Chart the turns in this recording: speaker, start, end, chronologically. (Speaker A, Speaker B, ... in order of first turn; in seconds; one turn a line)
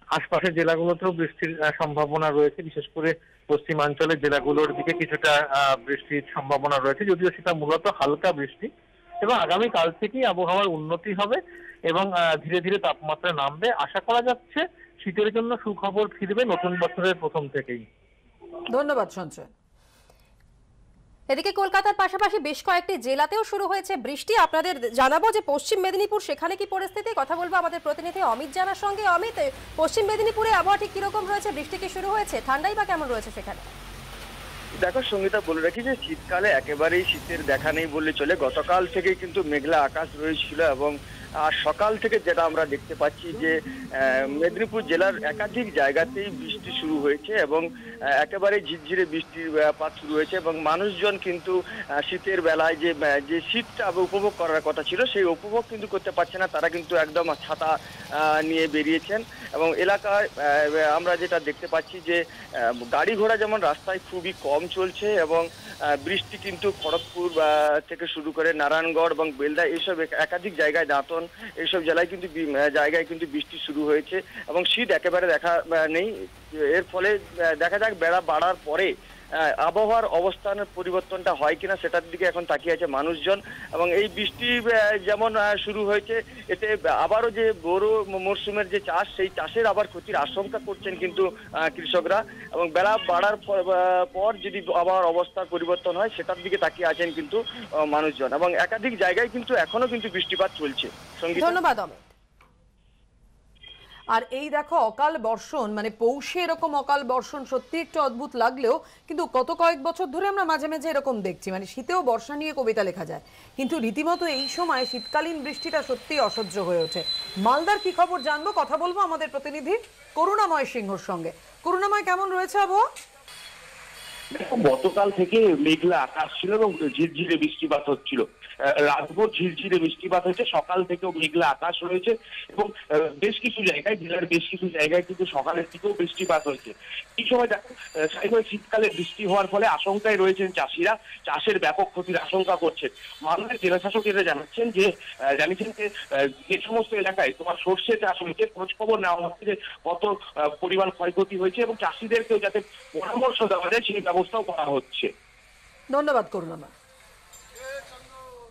Speaker A: 0.1-8.7
Speaker A: 9.2-17.8
Speaker B: 18.7-19.5
Speaker C: 21.3-33.7
Speaker D: 34.8-40.9
Speaker D: 41.5-43.5
Speaker D: 44.0-47.6
Speaker D: 48.2-51.5
Speaker D: 52.1-57.7
Speaker D: 58.3-62.2
Speaker D: 62.9-65.4
Speaker D: 66.0-76.1
Speaker D: 76.6-78.9
Speaker D: 79.6-101.6
Speaker C: 101.3-102.1
Speaker B: 104.1-122.8
Speaker E: 124.3-155.1
Speaker B: 155.9-156.7